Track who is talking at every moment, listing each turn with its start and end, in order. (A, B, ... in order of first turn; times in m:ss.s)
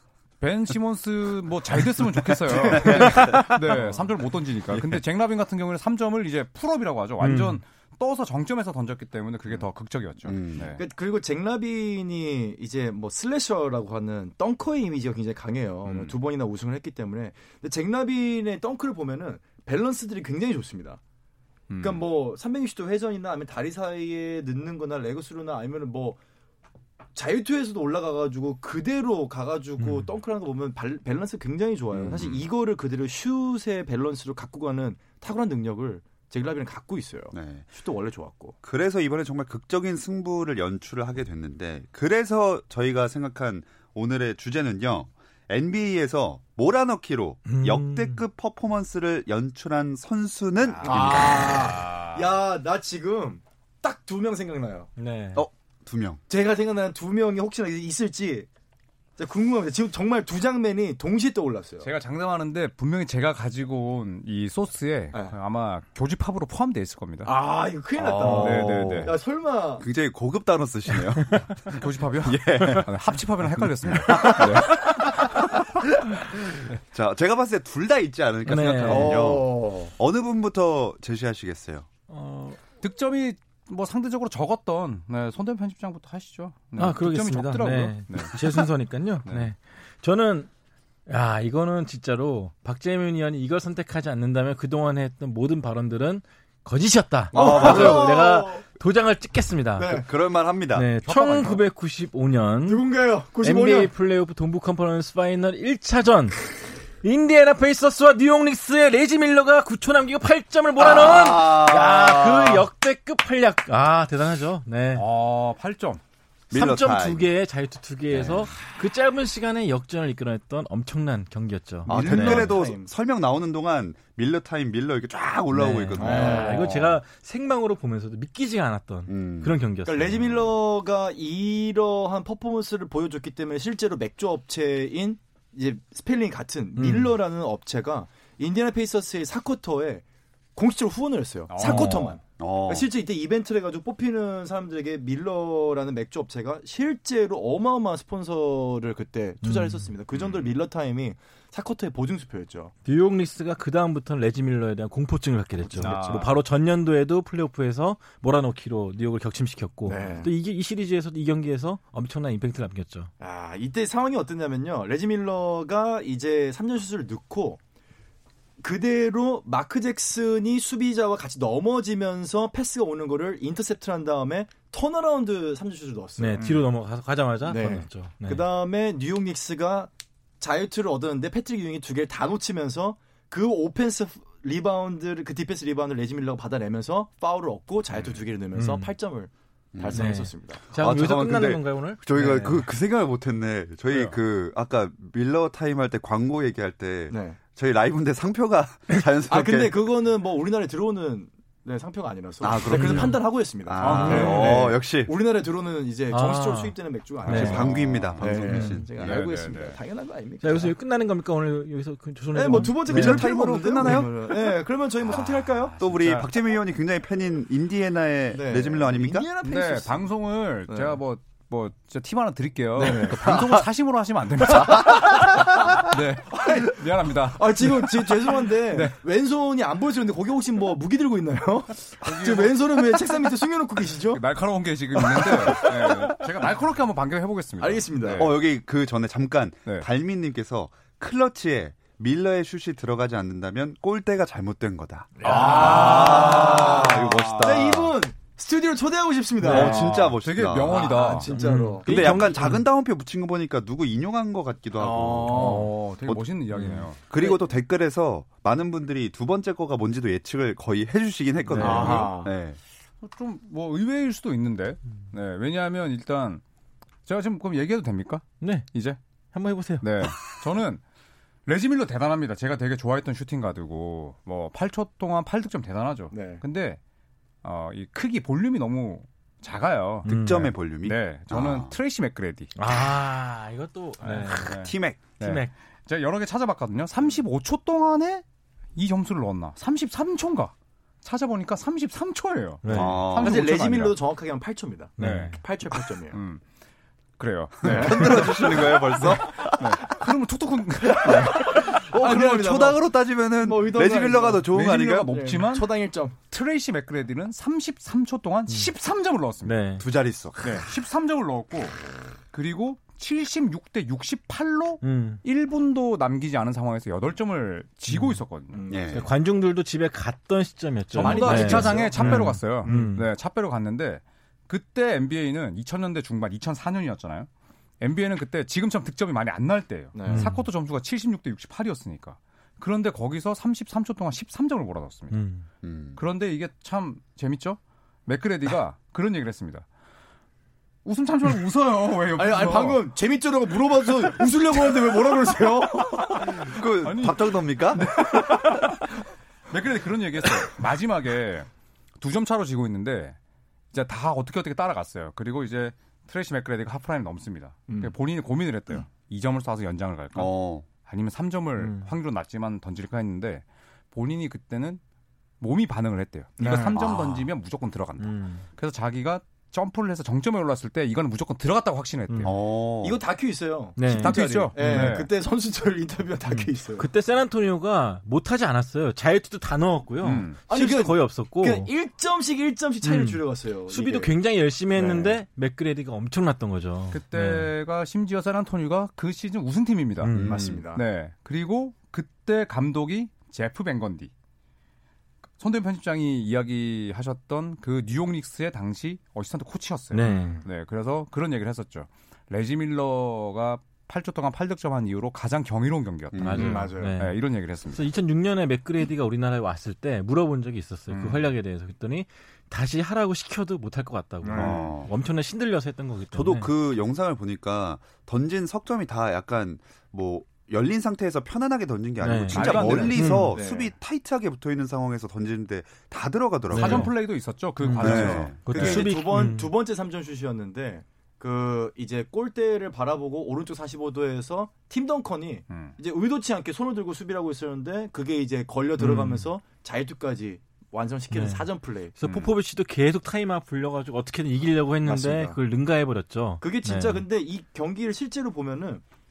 0:00.4-0:10.8 A
0:02.2-0:03.8 B
0:03.2-0:03.5 C
0:07.2-0:07.6 C
0:10.2-0:10.7 B
0:10.7-0:21.0 D
0:15.8-0:16.2 A
0:21.7-0:22.0 A
0:21.8-0:26.2 D
0:27.1-0:38.6 D
0:29.8-0:30.1 C
0:31.9-0:32.5 B
0:37.3-0:37.6 B
0:38.6-0:51.7 B
0:47.4-0:48.2 C
0:50.6-0:52.4 A
0:50.8-0:54.9 D
0:55.0-0:55.4 C
0:55.3-0:56.2 B
0:56.3-0:58.5 D
0:59.2-1:01.9 D
1:01.8-1:07.3 A
1:07.2-1:09.8 D
1:08.0-1:09.2 B
1:08.2-1:09.1 A
1:09.8-1:12.9 B
1:11.7-1:15.1 A
1:13.8-1:21.9 B
1:18.4-1:19.2 C
1:18.8-1:19.9 D
1:22.1-1:22.6 C
1:22.8-1:28.6 A
1:26.8-1:30.5 C
1:31.1-1:40.0 C
1:37.3-1:38.1 B
1:37.3-1:38.6 D
1:39.8-1:40.1 D
1:39.9-1:40.9 B
1:40.7-1:42.8 C
1:41.0-1:41.6 A
1:42.6-1:43.9 D
1:43.4-1:46.5 C
1:47.0-1:55.0 C
1:50.8-1:52.7 B
1:54.9-1:56.0 A
1:56.5-1:57.3 B
1:56.5-2:02.5 C
1:58.1-1:58.5 B
2:01.8-2:06.7 B
2:01.9-2:02.9 D
2:05.5-2:10.2 C
2:06.0-2:06.7 D
2:06.5-2:06.8 A
2:09.1-2:09.5 B
2:09.8-2:20.0 D
2:16.8-2:17.1 C
2:20.6-2:32.7 D
2:21.5-2:22.0 A
2:21.6-2:22.1 C
2:22.4-2:22.9 B
2:29.4-2:29.9 C
2:32.8-2:43.1 C
2:35.7-2:36.2 D
2:35.8-2:36.3 A
2:39.8-2:40.3 D
2:43.2-2:47.6 D
2:48.6-2:56.5 D
2:56.2-2:58.5 C
2:56.4-2:56.6 A
2:57.4-3:10.6 D
3:07.9-3:08.2 A
3:08.5-3:08.9 C
3:09.7-3:10.2 B
3:09.9-3:12.7 C
3:10.7-3:19.8 B
3:17.1-3:17.4 D
3:19.3-3:30.7 D
3:22.4-3:25.1 B
3:22.7-3:23.2 C
3:23.8-3:24.6 A
3:23.9-3:24.4 C
3:26.1-3:27.7 C
3:27.2-3:28.3 A
3:27.3-3:29.2 B
3:28.4-3:28.8 C
3:29.0-3:29.8 A
3:30.4-3:33.2 C
3:32.3-3:35.8 D
3:32.9-3:34.3 B
3:32.9-3:34.1 A
3:35.1-3:36.3 A
3:35.8-3:39.3 B
3:38.3-3:40.1 D
3:39.4-3:49.0 A
3:40.7-3:41.0 D
3:42.8-3:43.4 D
3:44.5-3:54.2 D
3:52.0-3:52.7 A
3:54.1-3:58.4 A
3:54.9-3:56.2 D
3:57.6-3:58.4 D
3:58.1-4:08.0 B
4:05.2-4:10.1 D
4:05.2-4:07.8 A
4:09.4-4:11.3 A
4:09.4-4:11.1 B
4:09.5-4:09.7 C
4:10.6-4:12.3 D
4:11.3-4:12.6 C
4:11.8-4:16.2 B
4:14.8-4:15.7 D
4:15.3-4:17.0 A
4:16.6-4:16.8 C
4:16.9-4:22.6 B
4:17.1-4:17.4 D
4:21.5-4:22.1 C
4:21.6-4:22.3 D
4:21.6-4:22.2 A
4:23.0-4:26.4 A
4:27.0-4:29.0 A
4:28.4-4:28.7 C
4:29.3-4:30.0 C
4:29.8-4:30.8 A
4:31.4-4:36.8 A
4:36.1-4:36.4 D
4:37.4-4:40.1 A
4:40.0-4:40.5 C
4:40.0-4:41.8 B
4:40.8-4:42.5 A
4:42.6-4:45.5 C
4:44.0-4:48.2 A
4:44.5-4:45.0 B
4:48.8-4:54.0 A
4:52.6-4:53.0 C
4:52.7-4:53.4 B
4:53.1-4:56.2 D
4:55.0-4:55.4 C
4:55.0-4:55.4 A
4:56.1-4:56.4 A
4:57.2-5:01.7 A
4:57.6-4:58.8 D
4:57.6-4:59.8 B
5:00.9-5:05.2 B
5:01.0-5:02.8 D
5:03.4-5:04.5 D
5:04.5-5:05.8 A
5:05.1-5:06.2 D
5:06.3-5:09.6 A
5:09.4-5:09.8 C
5:09.8-5:10.6 B
5:10.4-5:11.8 A
5:12.3-5:18.6 A
5:14.8-5:15.2 C
5:17.9-5:18.2 C
5:18.5-5:19.0 D
5:18.7-5:19.1 B
5:18.9-5:23.1 C
5:20.9-5:27.3 A
5:21.0-5:22.9 D
5:27.8-5:35.2 A
5:29.9-5:30.3 D
5:30.1-5:30.4 C
5:35.1-5:35.4 C
5:35.6-5:36.0 B
5:36.0-5:39.6 A
5:40.8-5:42.8 A
5:42.2-5:46.5 D
5:46.3-5:47.9 B
5:46.8-5:48.9 A
5:48.0-5:48.8 D
5:49.5-5:51.5 A
5:52.0-5:53.2 A
5:53.7-6:04.8 A
5:57.7-5:57.9 D
6:00.1-6:00.7 B
6:01.6-6:01.9 C
6:05.4-6:12.4 A
6:06.4-6:07.2 D
6:08.0-6:08.4 C
6:12.1-6:12.3 C
6:12.2-6:13.0 B
6:12.8-6:16.9 D
6:13.8-6:14.9 C
6:13.9-6:15.1 A
6:16.3-6:21.7 C
6:20.0-6:20.4 A
6:20.5-6:24.1 D
6:22.8-6:27.5 C
6:24.7-6:25.2 D
6:26.9-6:30.2 A
6:30.0-6:30.4 C
6:30.1-6:30.7 B
6:30.2-6:30.8 D
6:30.7-6:34.1 A
6:35.4-6:47.8 A
6:39.9-6:40.4 C
6:40.0-6:40.4 D
6:46.1-6:46.6 B
6:46.2-6:47.2 C
6:46.4-6:47.0 D
6:47.7-6:56.5 C
6:50.9-6:51.3 A
6:54.2-6:54.7 D
6:54.3-6:54.9 B
6:56.1-7:06.9 B
7:02.0-7:03.3 C
7:02.3-7:03.2 A
7:03.2-7:03.7 D
7:06.5-7:06.9 C
7:06.5-7:08.9 A
7:07.6-7:09.5 C
7:07.8-7:08.4 B
7:07.9-7:21.9 D
7:15.5-7:15.7 A
7:18.8-7:19.3 C
7:21.1-7:27.0 C
7:22.0-7:22.3 A
7:24.8-7:25.4 D
7:26.4-7:28.8 D